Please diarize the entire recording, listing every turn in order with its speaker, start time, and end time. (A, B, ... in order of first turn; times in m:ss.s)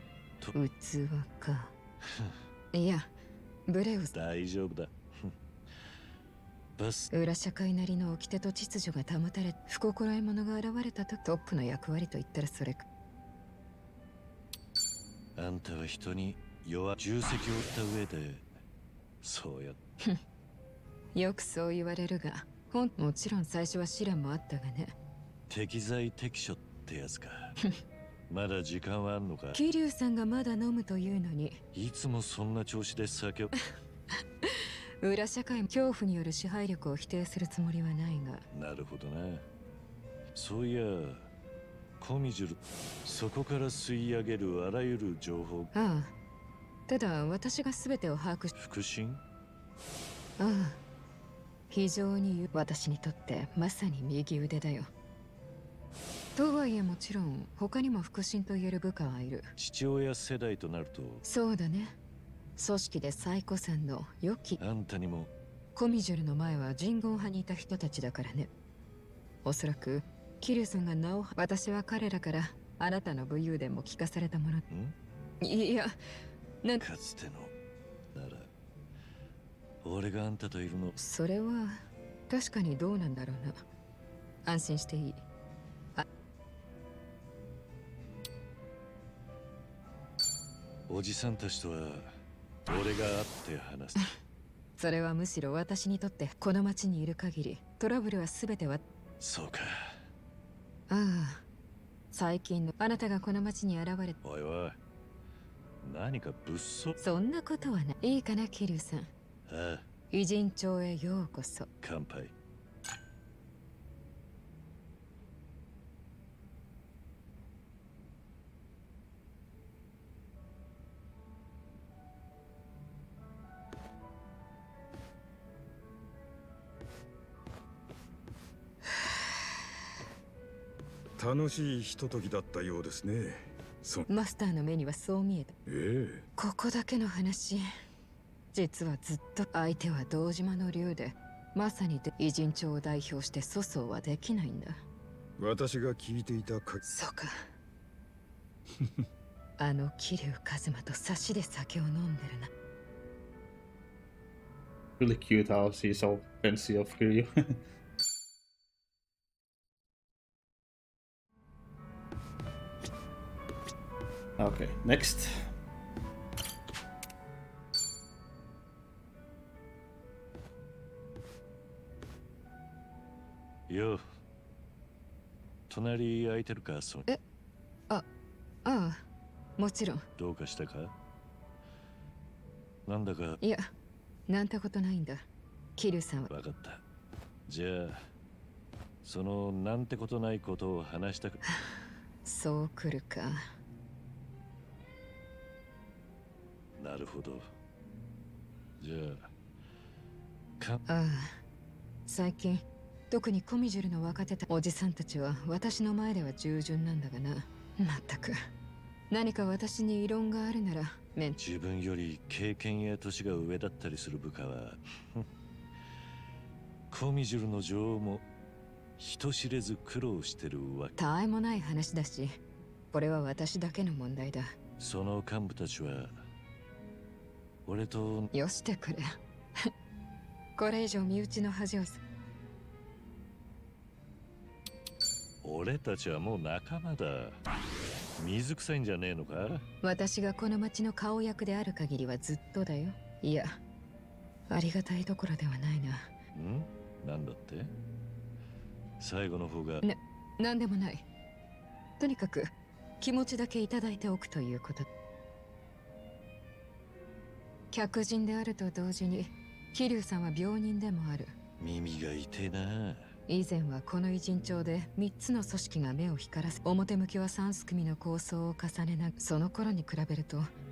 0:00.6-0:01.7 A
0:02.1-0:02.4 B
0:02.7-0:03.1 A
0:03.7-0:04.1 A
0:04.1-0:05.3 B
0:06.8-0:07.1 B
0:07.1-0:12.8 A
0:15.4-0:18.5 B
0:19.2-0:19.8 B
0:21.1-0:24.9 A
0:25.5-0:27.6 B
0:28.3-0:29.6 B
0:29.5-0:31.6 A
0:31.7-0:33.5 B
0:34.4-0:38.4 A
0:38.5-0:39.4 B
0:40.3-0:41.3 B
0:42.0-0:45.7 B
0:45.7-0:46.1 A
0:46.9-0:48.5 A
0:48.6-0:49.2 B
0:50.4-0:50.8 A
0:51.7-0:54.9 A
0:56.4-0:59.5 A
0:59.6-1:01.2 B
1:01.2-1:02.0 A
1:02.6-1:04.6 A
1:04.6-1:05.3 B
1:05.8-1:08.5 A
1:09.4-1:14.6 A
1:14.7-1:15.0 B
1:15.4-1:16.0 A
1:16.8-1:17.5 B
1:18.1-1:18.5 B
1:19.8-1:21.0 B
1:21.0-1:21.8 A
1:22.3-1:23.6 A
1:24.4-1:25.2 A
1:30.9-1:32.2 B
1:32.7-1:34.0 B
1:34.8-1:38.8 A
1:39.2-1:40.0 B
1:40.9-1:41.4 A
1:42.1-1:44.2 A
1:44.2-1:44.8 B
1:45.8-1:47.0 B
1:47.0-1:49.1 A
1:49.5-1:49.9 B
1:50.1-1:51.7 A
1:51.8-1:52.3 B
2:08.9-2:09.2 A
2:11.2-2:14.0 C
2:14.1-2:15.6 A
2:15.7-2:16.3 C
2:16.4-2:17.7 A
2:18.5-2:24.8 A
2:25.4-2:26.8 C
2:26.9-2:27.4 A
2:28.8-2:29.0 C
2:29.6-2:32.5 A
2:35.0-2:37.3 D
2:44.4-2:45.5 D
2:53.7-2:54.0 B
2:55.7-2:57.1 B
2:58.6-2:59.0 A
2:59.6-3:00.0 A
3:00.2-3:00.9 B
3:02.9-3:03.4 B
3:03.4-3:03.7 A
3:04.3-3:05.2 A
3:05.8-3:06.3 A
3:06.3-3:06.8 B
3:07.5-3:08.1 B
3:09.0-3:11.4 B
3:12.2-3:13.4 A
3:16.8-3:17.5 B
3:18.8-3:19.3 B
3:20.9-3:21.4 A
3:22.1-3:28.4 A
3:29.1-3:31.4 A
3:31.4-3:35.3 B
3:36.9-3:38.2 B
3:39.0-3:40.9 B
3:41.0-3:42.4 A
3:42.9-3:44.6 A
3:44.8-3:46.2 B
3:47.7-3:48.3 B
3:48.3-3:49.7 A
3:50.6-3:52.0 A
3:55.4-3:57.4 B
3:58.2-3:59.7 B
3:59.8-4:03.6 A
4:04.5-4:06.1 A
4:06.3-4:07.7 B
4:09.0-4:09.8 B
4:09.8-4:11.0 A
4:12.0-4:14.9 A
4:17.7-4:21.4 A
4:21.6-4:23.1 B
4:23.3-4:30.5 A